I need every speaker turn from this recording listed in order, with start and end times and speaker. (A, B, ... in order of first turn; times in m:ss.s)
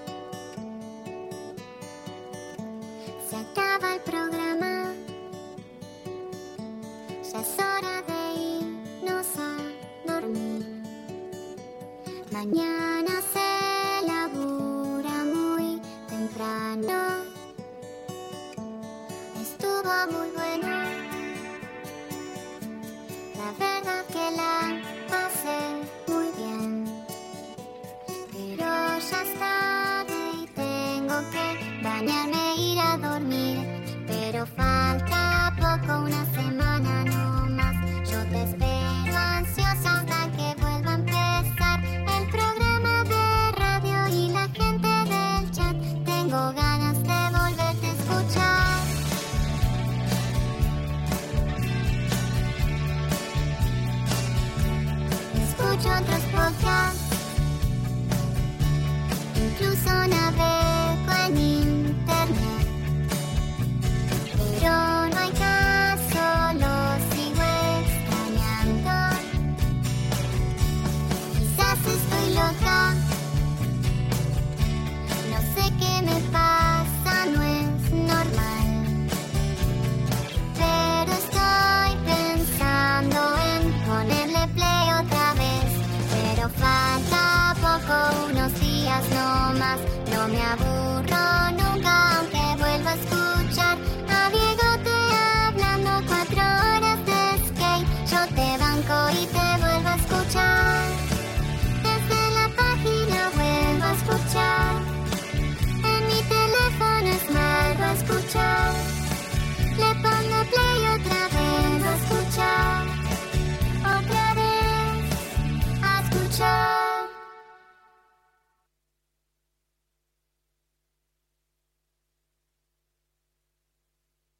0:03.2-0:05.0 A
0:07.2-0:10.9 A
0:12.3-0:17.3 A
0:19.3-0:21.1 A
0:23.3-0:27.0 A
0:28.3-0:48.9 A
0:55.3-0:57.0 A
0:59.3-1:02.7 A
1:04.4-1:09.3 A
1:11.3-1:13.0 A
1:15.2-1:19.1 A
1:20.5-1:41.0 A
1:41.8-1:44.9 A
1:45.8-1:48.9 A
1:49.7-1:53.0 A
1:53.8-1:55.1 A
1:55.8-1:57.1 A